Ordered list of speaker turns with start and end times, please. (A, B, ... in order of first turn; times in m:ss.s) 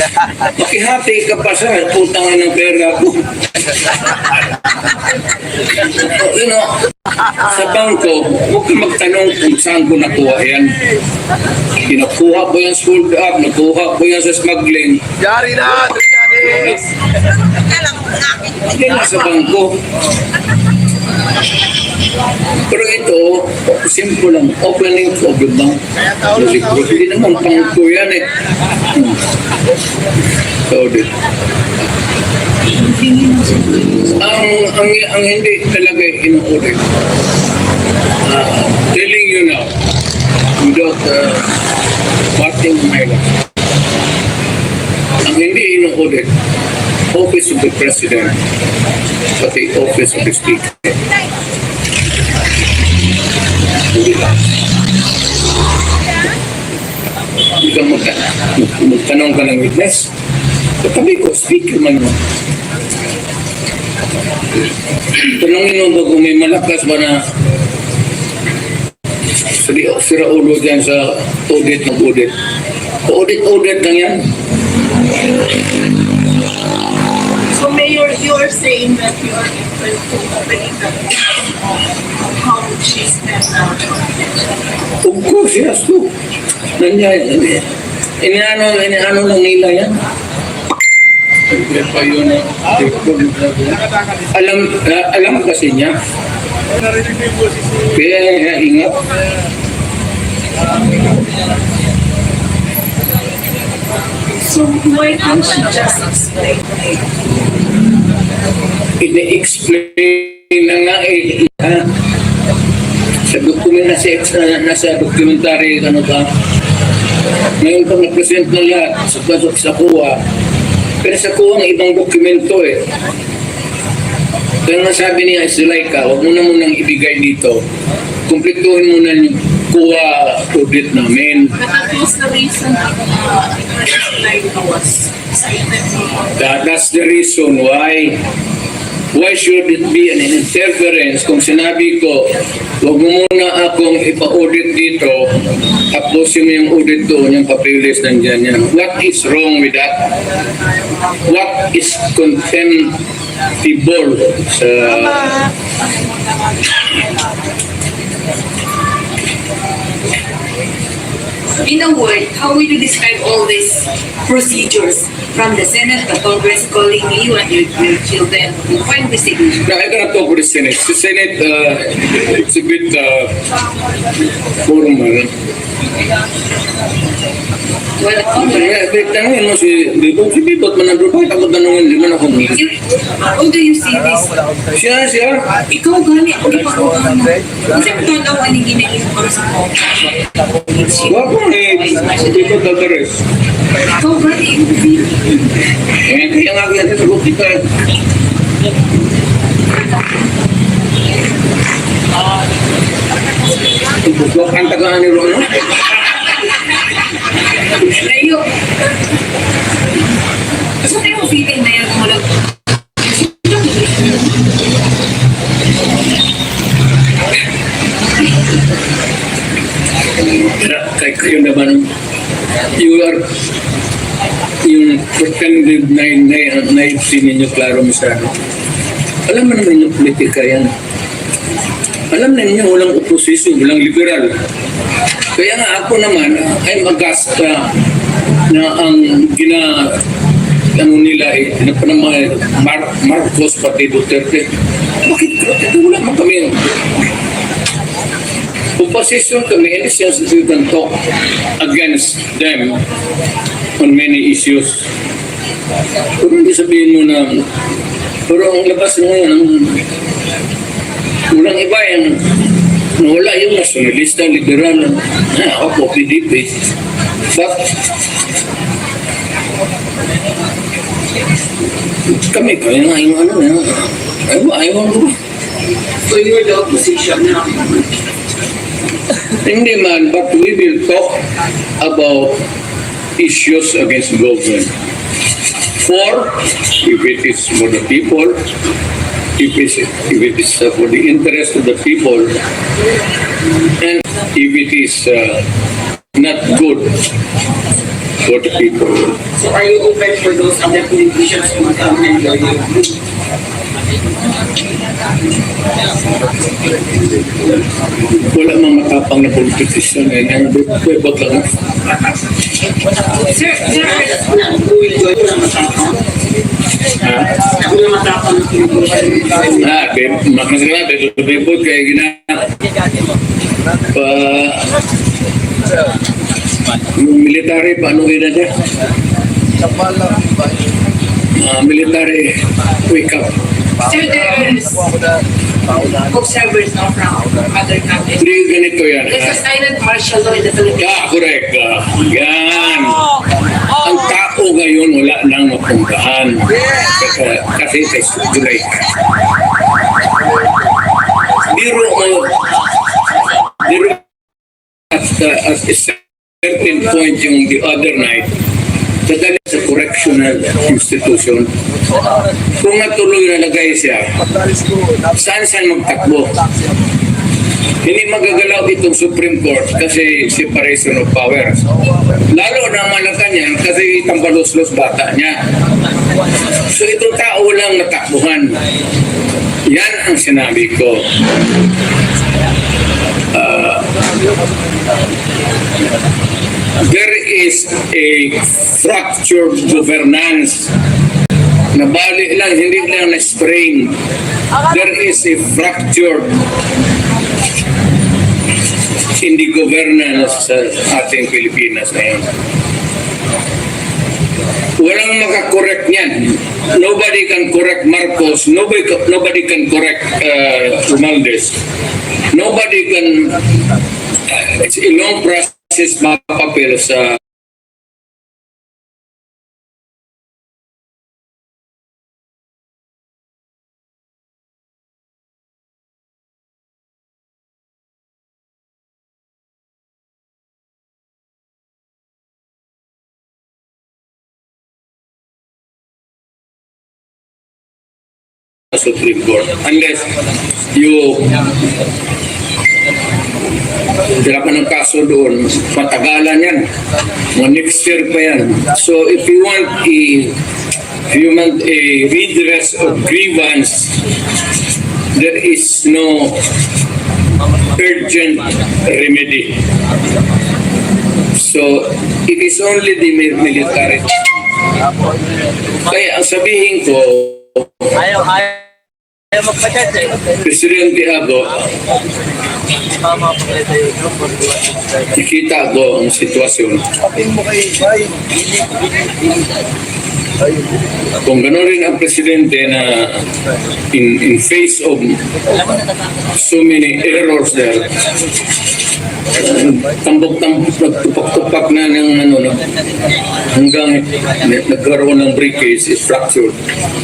0:00.4-0:03.3 A
0:06.0-0:10.8 A
0:11.8-0:15.0 A
0:15.2-0:16.9 B
0:18.6-0:19.8 A
0:22.7-0:28.3 A
0:26.0-0:26.8 B
0:28.9-0:29.2 A
0:30.7-0:31.1 A
0:32.8-0:33.7 C
0:34.2-0:36.8 A
0:38.2-0:39.7 A
0:40.6-0:41.5 A
0:42.3-0:43.3 A
0:45.2-0:46.3 A
0:47.1-0:48.4 A
0:49.4-0:51.0 A
0:53.9-0:54.3 A
0:57.6-1:00.1 A
1:00.8-1:02.2 A
1:05.2-1:07.3 A
1:09.5-1:12.4 A
1:13.0-1:14.3 A
1:17.5-1:21.3 D
1:22.3-1:24.1 D
1:25.0-1:26.1 A
1:26.8-1:27.7 A
1:28.2-1:30.0 A
1:31.5-1:36.0 A
1:37.9-1:39.0 A
1:44.5-1:46.7 D
1:44.5-1:46.4 C
1:49.0-1:51.9 A
1:53.3-1:56.3 A
1:57.6-2:00.2 A
2:01.0-2:02.9 A
2:04.6-2:07.6 A
2:08.3-2:11.6 A
2:11.6-2:16.2 D
2:16.3-2:18.2 A
2:19.1-2:30.1 A
2:31.2-2:33.0 A
2:33.6-2:35.5 A
2:41.6-2:49.7 C
2:49.6-2:53.4 A
2:54.6-2:55.3 A
2:58.0-2:58.8 C
2:58.4-3:02.6 A
3:02.5-3:04.3 C
3:04.1-3:04.7 B
3:04.7-3:05.6 A
3:05.6-3:12.5 C
3:06.6-3:07.7 B
3:10.9-3:13.2 A
3:13.9-3:15.4 C
3:15.9-3:17.7 A
3:24.0-3:25.7 A
3:27.8-3:28.5 C
3:30.8-3:32.3 C
3:33.0-3:34.1 C
3:40.3-3:41.9 A
3:42.7-3:43.3 A
3:44.6-3:48.3 A
3:49.2-3:50.7 A
3:52.1-3:54.4 A
3:55.3-3:57.7 A
3:58.5-4:00.0 A
4:00.7-4:04.5 A
4:05.0-4:06.7 A
4:08.8-4:11.0 A
4:11.6-4:12.8 A
4:13.8-4:14.9 A
4:16.2-4:17.5 A
4:18.3-4:19.8 A
4:21.3-4:22.3 A
4:23.0-4:26.7 A
4:27.3-4:27.7 A
4:32.0-4:35.2 A
4:36.0-4:37.8 E
4:39.3-4:41.2 A
4:41.8-4:42.4 A
4:43.2-4:44.7 A
4:45.8-4:48.4 A
4:49.4-4:52.4 A
4:53.8-4:55.4 A
4:56.1-4:57.0 A
4:58.2-4:59.2 A
4:59.3-5:03.0 E
5:06.2-5:07.6 B
5:08.2-5:11.5 A
5:13.2-5:14.2 C
5:13.6-5:16.0 E
5:17.0-5:17.3 A
5:17.3-5:19.6 E
5:19.4-5:22.4 A
5:23.9-5:24.8 A
5:25.6-5:25.9 B
5:26.9-5:28.5 A
5:29.6-5:30.7 B
5:31.4-5:33.4 A
5:33.8-5:34.9 C
5:33.8-5:36.1 B
5:36.1-5:38.3 C
5:38.2-5:39.4 A
5:39.0-5:41.0 C
5:40.8-5:43.1 A
5:43.8-5:48.9 A
5:50.0-5:50.7 B
5:51.4-5:52.4 A
5:53.6-5:54.0 A
5:54.9-5:58.3 A
5:59.0-6:01.5 A
6:01.7-6:02.3 B
6:02.6-6:04.2 A
6:04.2-6:05.2 B
6:05.1-6:06.4 A
6:05.9-6:06.9 B
6:07.8-6:11.6 A
6:11.7-6:12.2 B
6:12.3-6:15.4 A
6:16.6-6:18.6 A
6:19.6-6:21.1 A
6:23.3-6:23.9 A
6:24.0-6:24.8 B
6:26.8-6:30.7 A
6:31.7-6:34.0 A
6:34.6-6:36.4 A
6:39.2-6:42.3 A
6:44.8-6:51.6 A
6:52.3-6:53.4 A
6:54.3-6:57.2 A
7:18.7-7:20.2 A
7:20.7-7:21.6 A
7:24.2-7:26.7 A
7:27.3-7:30.4 A
7:31.1-7:33.9 A
7:35.1-7:36.4 A
7:37.7-7:39.6 A
7:41.3-7:44.1 A
7:44.8-7:45.6 B
7:45.8-7:47.8 A
7:50.4-7:51.7 A
7:53.3-7:54.7 B
7:55.1-7:56.9 A
7:57.0-7:59.2 B
8:00.4-8:00.8 B
8:01.2-8:03.2 A
8:03.9-8:05.2 A
8:06.3-8:07.9 A
8:09.3-8:12.6 A
8:13.5-8:16.6 A